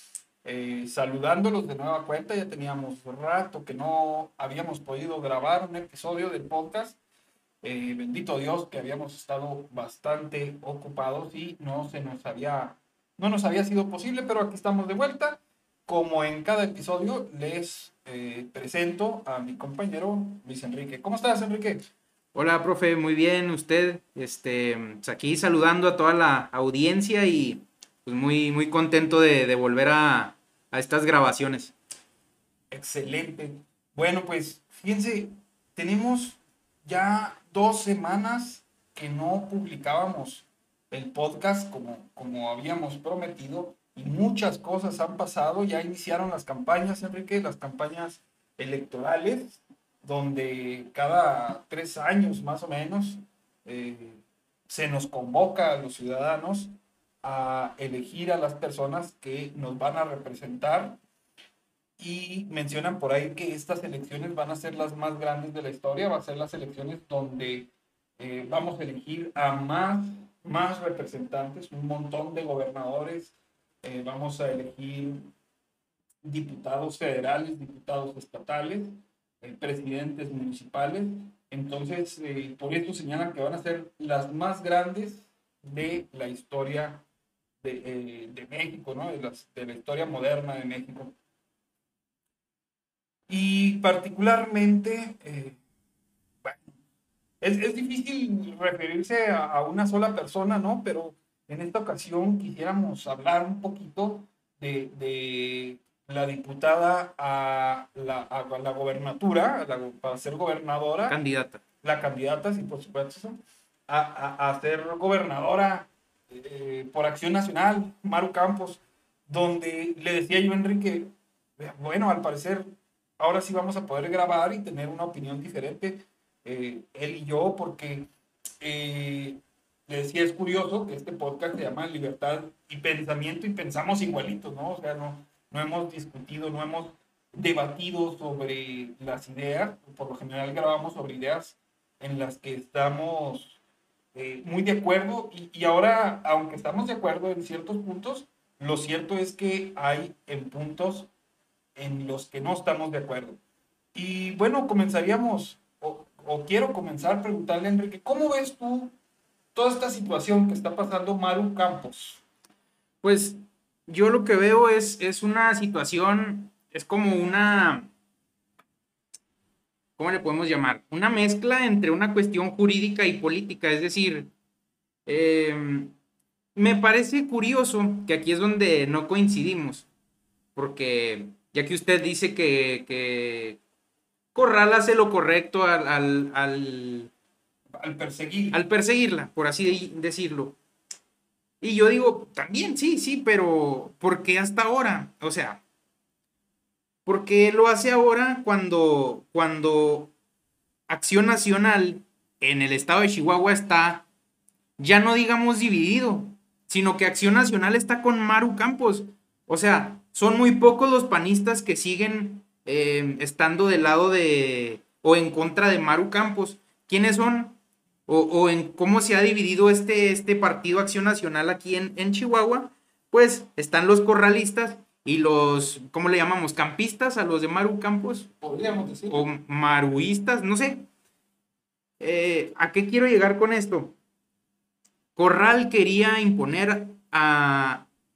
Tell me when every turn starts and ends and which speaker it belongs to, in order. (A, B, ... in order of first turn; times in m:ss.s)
0:00.4-0:07.0 A
0:07.6-0:21.8 A
0:22.3-0:31.7 B
0:32.7-0:56.7 A
0:57.2-1:01.0 A
1:02.0-1:15.3 A
1:16.2-1:18.9 A
1:19.4-1:27.0 A
1:27.6-1:31.1 A
1:33.3-1:35.6 A
1:36.4-1:36.8 A
1:37.4-1:51.2 A
1:51.1-1:51.6 B
1:51.8-2:02.7 A
2:03.2-2:08.1 A
2:08.6-2:23.6 A
2:24.1-2:31.1 A
2:31.8-2:33.4 A
2:33.9-2:38.9 A
2:39.5-2:42.2 A
2:43.0-2:47.9 B
2:50.0-2:54.3 B
2:55.0-2:55.9 B
2:56.5-2:59.9 B
3:00.6-3:03.6 B
3:04.3-3:07.1 B
3:07.8-3:08.6 A
3:08.5-3:10.6 B
3:11.6-3:15.6 B
3:17.0-3:20.1 B
3:20.9-3:24.1 B
3:24.8-3:48.3 B
3:48.4-3:49.3 A
3:49.1-3:50.9 B
3:52.0-3:53.9 B
3:55.2-3:57.9 B